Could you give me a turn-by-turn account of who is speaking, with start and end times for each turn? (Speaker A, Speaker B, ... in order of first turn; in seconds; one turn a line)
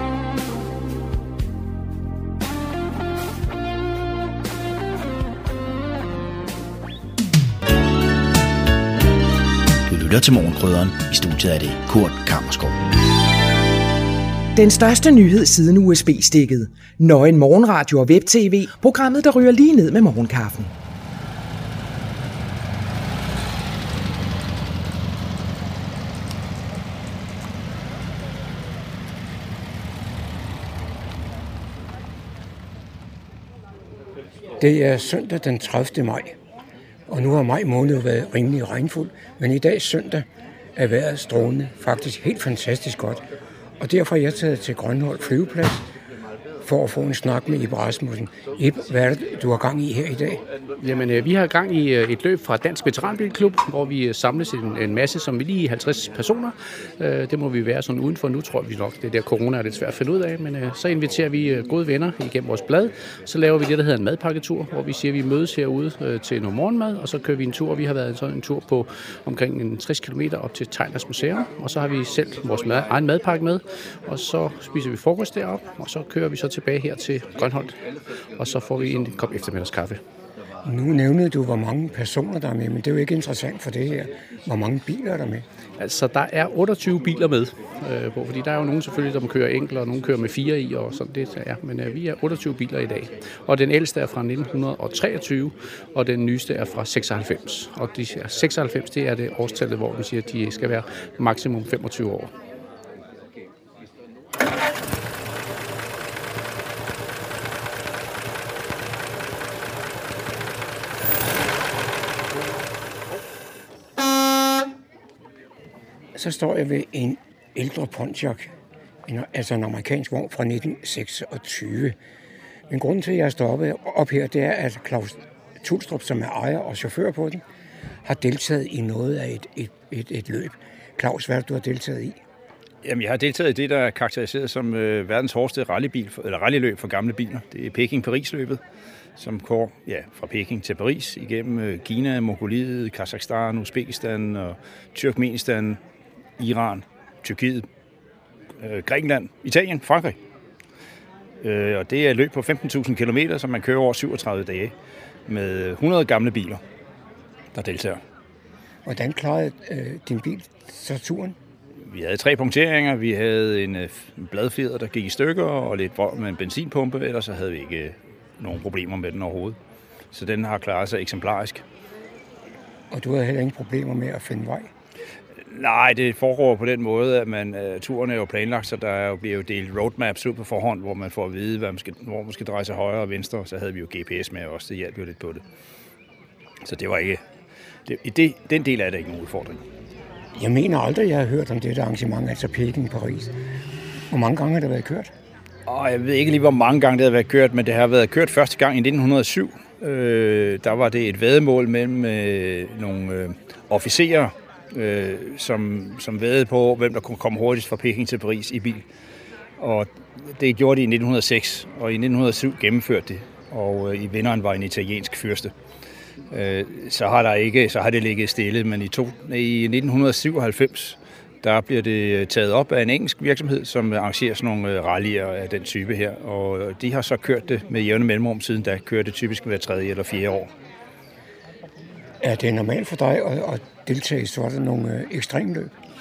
Speaker A: 9.9-12.9
Speaker B: 14.6-20.7
Speaker C: 34.6-36.3
Speaker C: 37.1-43.2
Speaker C: 43.8-45.9
Speaker C: 46.6-50.4
Speaker D: 50.8-77.8
Speaker D: 78.4-80.0
Speaker C: 80.6-85.4
Speaker D: 85.8-102.3
Speaker C: 116.1-118.5
Speaker C: 119.0-122.0
Speaker C: 122.7-127.4
Speaker C: 128.0-132.2
Speaker E: 132.8-138.6
Speaker E: 139.2-145.8
Speaker E: 146.4-147.7
Speaker E: 148.6-150.2
Speaker E: 151.4-154.7
Speaker E: 155.3-156.6
Speaker E: 157.5-158.0
Speaker C: 158.8-161.3
Speaker E: 161.9-169.6
Speaker E: 170.1-171.6
Speaker C: 172.9-174.7
Speaker E: 175.5-185.4
Speaker E: 186.6-187.2
Speaker E: 187.9-189.6
Speaker C: 190.4-193.3
Speaker C: 194.1-195.1
Speaker E: 195.7-208.8
Speaker E: 209.6-215.5
Speaker E: 216.3-230.5
Speaker C: 232.2-235.7